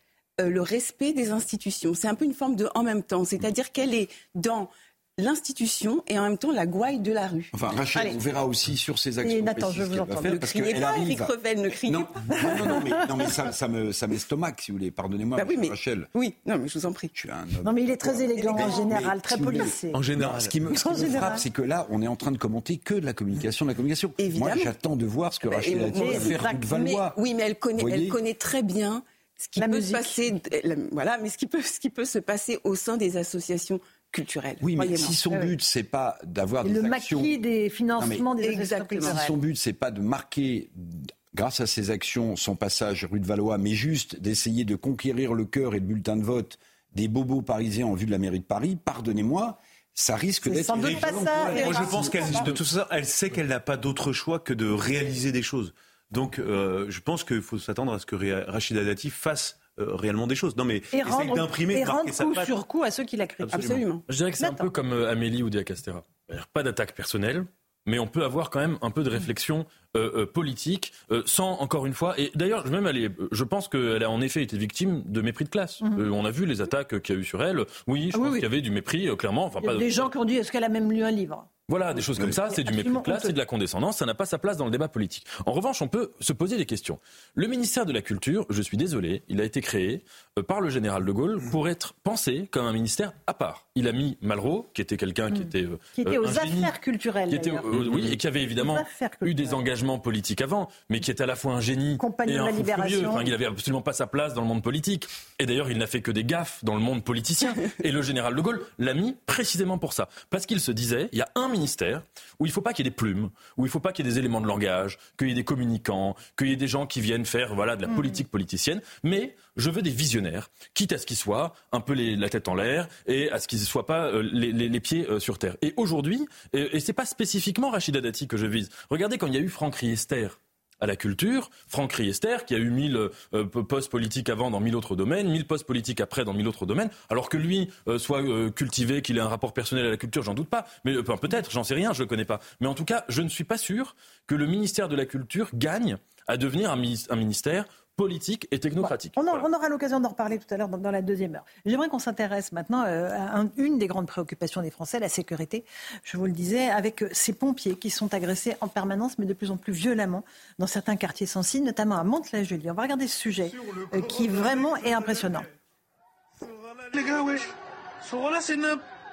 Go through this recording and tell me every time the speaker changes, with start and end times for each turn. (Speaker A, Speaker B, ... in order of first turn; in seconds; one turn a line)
Speaker A: 0.4-7.5
Speaker B: 7.5-11.3
Speaker C: 9.2-11.0
Speaker A: 10.3-12.5
Speaker B: 11.9-16.1
Speaker C: 12.5-12.8
Speaker A: 15.3-17.1
Speaker B: 17.1-27.2
Speaker C: 17.6-20.0
Speaker D: 19.9-21.2
Speaker C: 20.7-21.4
Speaker A: 24.2-24.7
Speaker A: 25.4-26.4
Speaker C: 25.9-27.0
Speaker A: 27.0-35.1
Speaker B: 27.8-28.2
Speaker C: 29.6-30.2
Speaker B: 34.6-37.3
Speaker C: 36.6-39.3
Speaker B: 38.0-38.2
Speaker A: 38.4-39.2
Speaker B: 39.0-52.5
Speaker C: 50.4-52.5
Speaker D: 50.8-62.5
Speaker C: 60.9-63.8
Speaker A: 63.5-64.0
Speaker E: 63.5-80.1
Speaker C: 64.4-64.7
Speaker C: 78.1-78.5
Speaker C: 79.6-81.5
Speaker E: 81.7-96.7
Speaker C: 82.2-83.4
Speaker C: 95.3-97.7
Speaker E: 97.3-149.4
Speaker C: 98.6-99.6
Speaker C: 102.0-103.3
Speaker C: 148.8-165.5